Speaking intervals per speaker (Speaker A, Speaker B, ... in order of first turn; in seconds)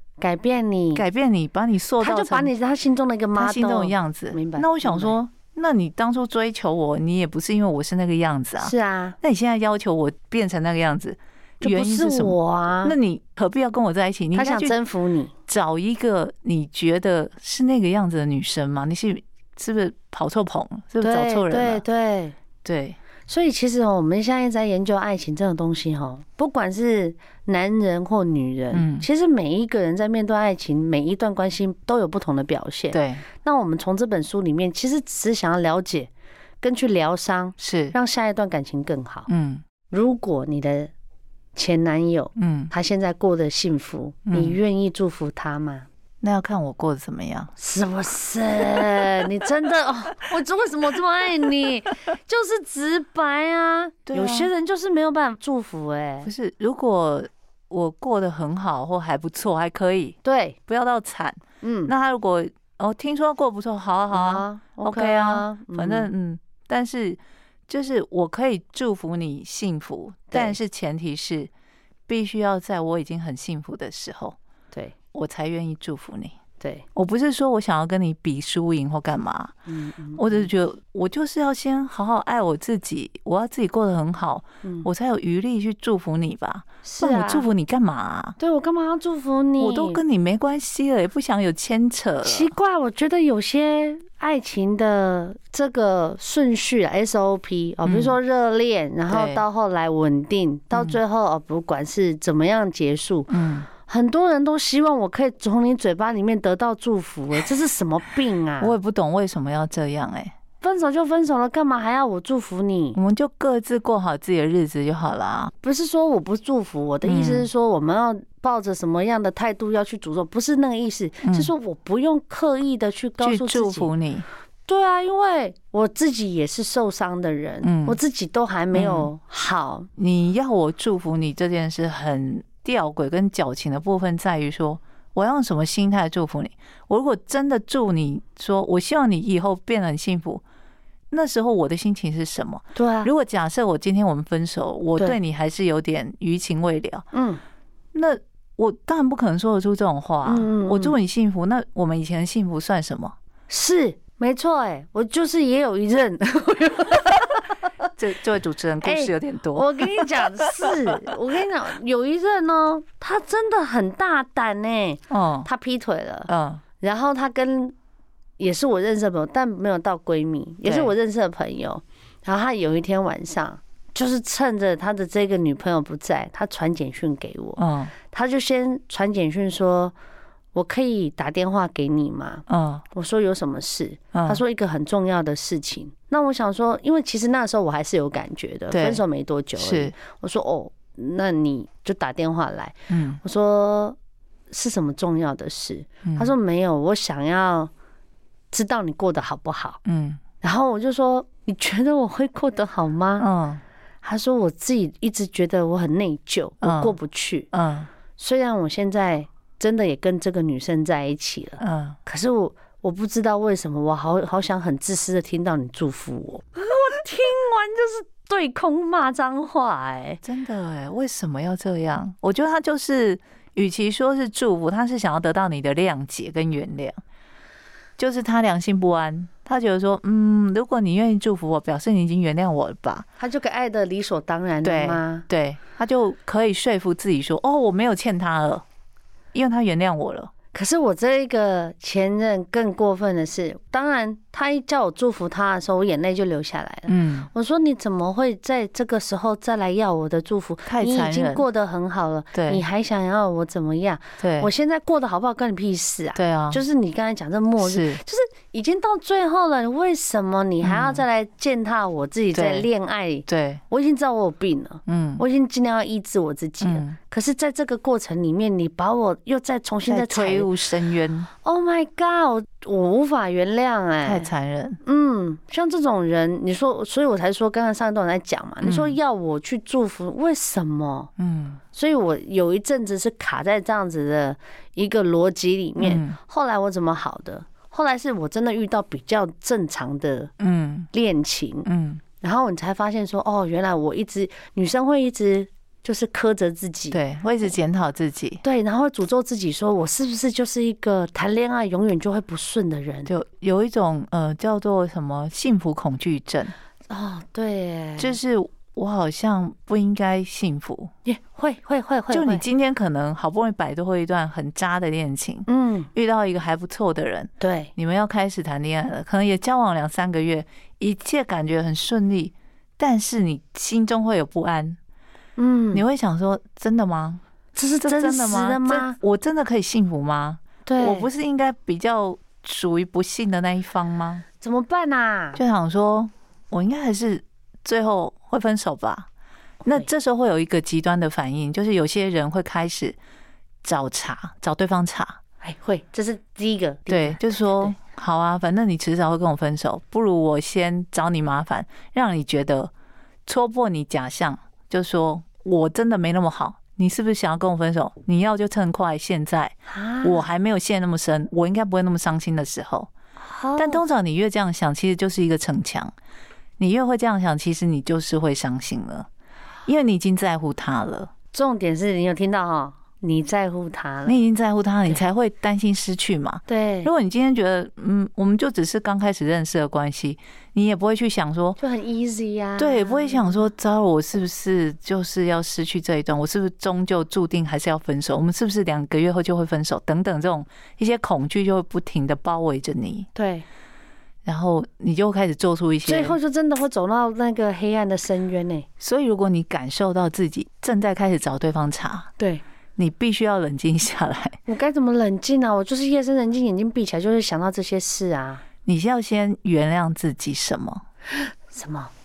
Speaker A: 0.2-1.0, 2.0-5.1, 8.6-9.2, 11.6-12.9, 14.3-15.3, 21.0-22.4, 23.3-39.3, 39.9-40.9, 41.5-45.9, 47.6-56.3, 60.2-60.6, 61.6-61.9, 64.1-66.1, 70.3-70.6, 76.6-76.8, 79.7-80.5, 84.6-84.9, 86.8-87.5, 88.4-90.0, 92.2-108.7, 110.6-113.0, 115.6-123.9, 124.7-129.9, 142.7-143.1, 147.1-147.4, 150.2-150.9, 153.5-157.5, 158.8-166.3, 166.8-167.7, 168.4-179.9, 180.5-194.0, 194.5-197.7, 198.5-199.8, 200.4-203.3, 204.0-207.5, 208.2-220.2, 233.2-235.2, 240.5-270.5, 271.4-274.3, 274.8-281.1, 281.7-290.3, 290.9-291.7, 292.2-297.0, 298.4-303.1, 306.9-308.2, 311.0-312.4, 315.5-315.9, 317.4-317.7, 325.4-325.8, 327.5-329.0, 330.6-331.1, 334.4-335.4, 345.4-347.7, 359.7-360.2, 363.2-363.8, 371.3-374.2, 376.5-376.9, 381.6-383.4, 393.1-393.4, 395.9-398.7, 402.2-402.4, 404.5-408.4, 411.1-411.9
Speaker B: 0.9-2.5, 3.4-14.8, 15.5-21.8, 22.6-23.0, 28.7-29.1, 32.9-33.2, 37.6-37.9, 39.3-39.6, 42.4-42.7, 44.2-44.6, 46.2-47.5, 54.1-54.5, 56.2-71.5, 72.1-74.4, 75.1-76.3, 76.9-79.5, 80.2-88.3, 89.6-92.5, 97.8-98.2, 99.1-99.4, 100.7-101.0, 103.3-103.7, 108.6-110.3, 112.9-115.5, 117.0-117.5, 121.2-121.5, 123.2-124.2, 127.6-128.0, 128.7-129.1, 130.0-140.4, 141.1-147.1, 147.9-153.1, 158.0-161.0, 165.1-165.5, 166.3-166.6, 170.6-170.9, 177.6-177.9, 182.5-182.8, 184.1-184.4, 188.7-189.0, 189.6-189.9, 192.9-193.2, 196.0-196.3, 199.8-200.2, 203.2-203.6, 206.6-206.9, 207.5-207.9, 211.6-212.0, 220.2-227.0, 228.0-233.1, 234.6-238.6, 239.3-240.3, 246.9-247.3, 250.7-251.4, 252.3-252.6, 254.2-254.5, 256.1-256.6, 257.6-258.0, 260.6-261.0, 262.3-262.7, 263.3-263.6, 264.9-265.2, 266.6-267.0, 269.9-271.3, 274.0-274.8, 278.6-279.0, 281.2-281.6, 285.8-286.2, 290.4-290.9, 291.6-292.0, 296.9-298.4, 303.1-306.5, 308.0-310.9, 312.1-324.8, 325.7-327.2, 327.8-334.2, 335.4-339.1, 339.6-343.0, 343.6-345.2, 346.9-352.7, 353.2-362.9, 363.6-365.9, 366.6-369.1, 369.6-371.1, 374.1-381.6, 382.6-393.1, 394.2-396.1, 398.8-402.1, 402.8-404.4, 408.6-410.8